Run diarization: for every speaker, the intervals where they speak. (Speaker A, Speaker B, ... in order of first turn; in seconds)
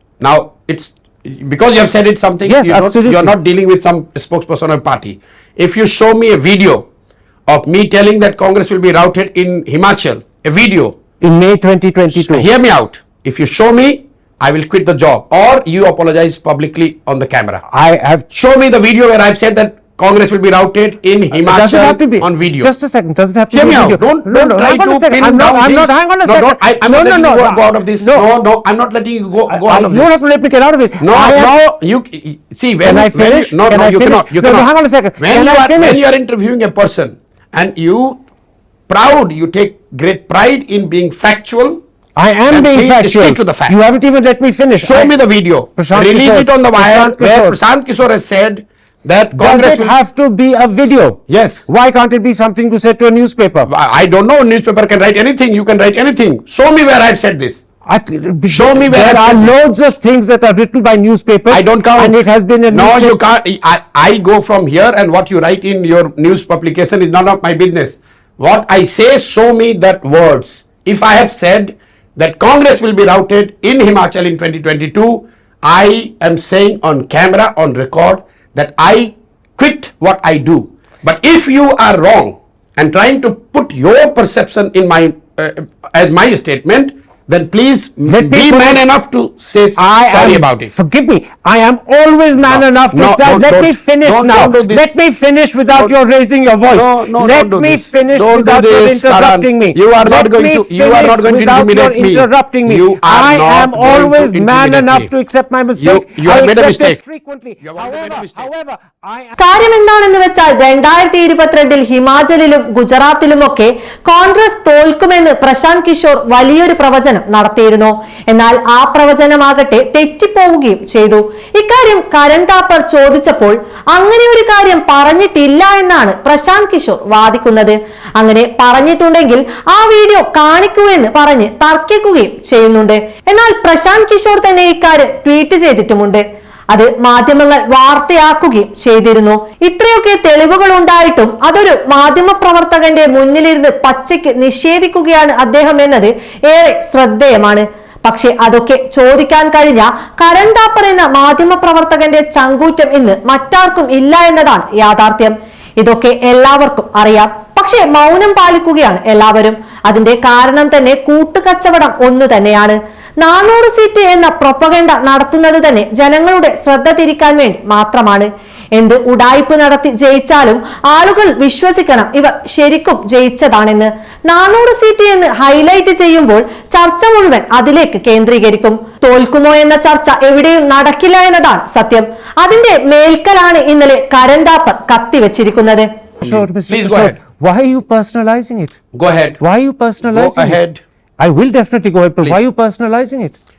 Speaker A: 0.2-6.8, 7.5-10.9, 12.1-17.6, 18.3-22.7, 23.5-30.2, 31.0-38.2, 38.9-41.8, 42.5-43.8, 44.8-50.0, 51.3-51.7, 53.7-57.6, 58.5-59.5, 61.5-90.7, 92.4-95.0, 96.7-105.1, 105.8-107.0, 107.6-108.5, 186.2-187.2, 188.9-189.4, 190.0-190.8
Speaker B: 2.5-3.3, 11.2-12.5, 17.7-18.3, 21.4-28.3, 29.5-31.6, 32.8-36.0, 42.2-45.1, 45.8-47.6, 49.4-53.7, 57.9-63.1, 88.1-88.8, 89.8-109.4, 186.2-188.7, 189.4-190.6, 191.2-193.3
Speaker C: 109.4-185.9